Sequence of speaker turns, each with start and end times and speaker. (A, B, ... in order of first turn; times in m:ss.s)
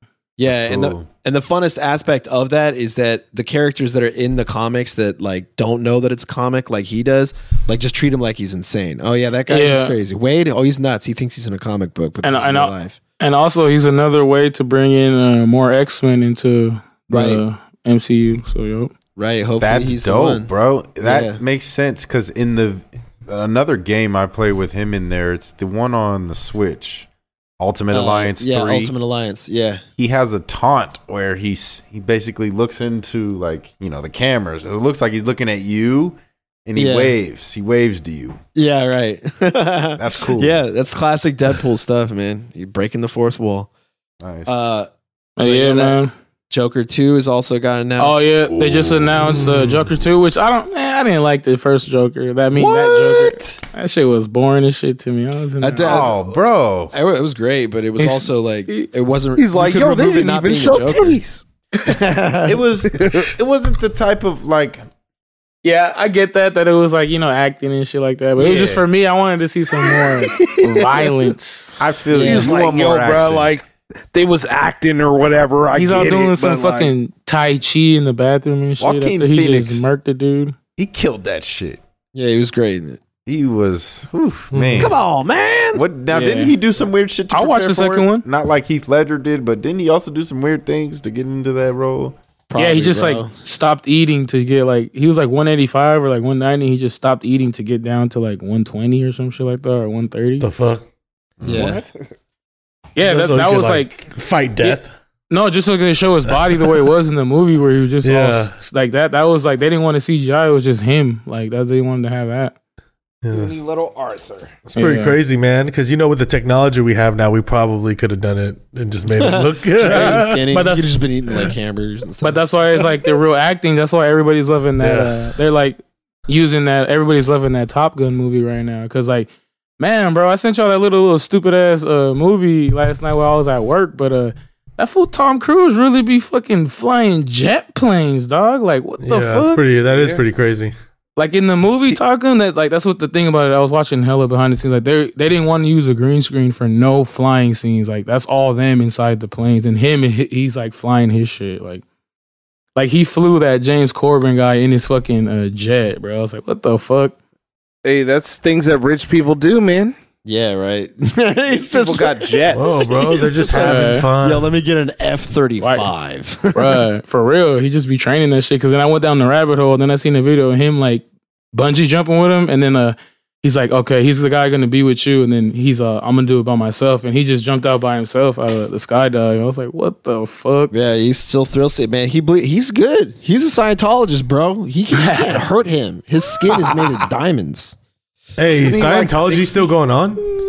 0:00.4-0:13.0 A
0:00.5-0:01.1 B
0:09.5-0:09.9 C
0:12.2-0:18.9 C
0:17.1-0:17.4 A
0:19.2-0:20.5 A
0:19.6-0:28.9 B
0:21.0-0:21.4 A
0:27.9-0:29.8 A
0:30.0-0:38.4 B
0:36.7-0:37.2 A
0:38.5-0:43.7 A
0:40.0-0:40.6 B
0:44.2-0:44.5 B
0:44.4-0:46.0 A
0:45.4-0:46.1 C
0:46.5-0:48.3 A
0:48.0-0:56.1 C
0:48.5-0:49.1 B
0:49.2-0:49.8 D
0:52.5-0:53.6 B
0:55.6-0:56.4 A
0:55.8-0:56.9 B
0:56.9-1:01.2 A
0:58.0-0:58.9 C
0:59.4-1:01.4 E
1:01.8-1:02.6 A
1:02.4-1:04.8 B
1:02.9-1:03.3 E
1:05.6-1:12.5 C
1:08.4-1:08.8 B
1:10.5-1:10.9 E
1:11.8-1:13.5 B
1:12.1-1:16.9 E
1:15.8-1:20.5 C
1:18.8-1:19.8 B
1:20.8-1:21.8 B
1:22.1-1:23.0 A
1:23.2-1:24.9 B
1:24.5-1:24.9 D
1:24.8-1:25.8 A
1:25.7-1:32.2 B
1:26.1-1:26.5 C
1:27.3-1:28.2 C
1:32.5-1:33.3 A
1:32.6-1:40.5 C
1:40.4-1:40.8 D
1:41.4-1:41.7 B
1:41.4-1:41.8 A
1:41.5-1:41.9 E
1:43.0-1:44.0 C
1:43.0-1:44.9 D
1:45.3-1:52.5 C
1:46.3-1:46.8 D
1:48.0-1:48.5 D
1:53.2-1:53.6 D
1:53.3-1:54.6 E
1:54.7-2:00.5 D
1:54.7-1:55.2 C
1:59.1-2:02.4 A
1:59.8-2:00.9 C
2:02.2-2:19.6 C
2:04.8-2:05.1 D
2:19.0-2:20.7 D
2:21.2-2:31.8 C
2:32.8-2:37.2 C
2:37.8-2:39.9 E
2:40.2-2:46.8 A
2:41.7-2:43.6 E
2:42.5-2:44.5 D
2:43.5-2:44.0 C
2:45.6-2:45.9 C
2:46.5-3:00.7 C
3:00.7-3:07.8 A
3:04.9-3:05.4 C
3:08.4-3:10.2 D
3:08.5-3:09.7 E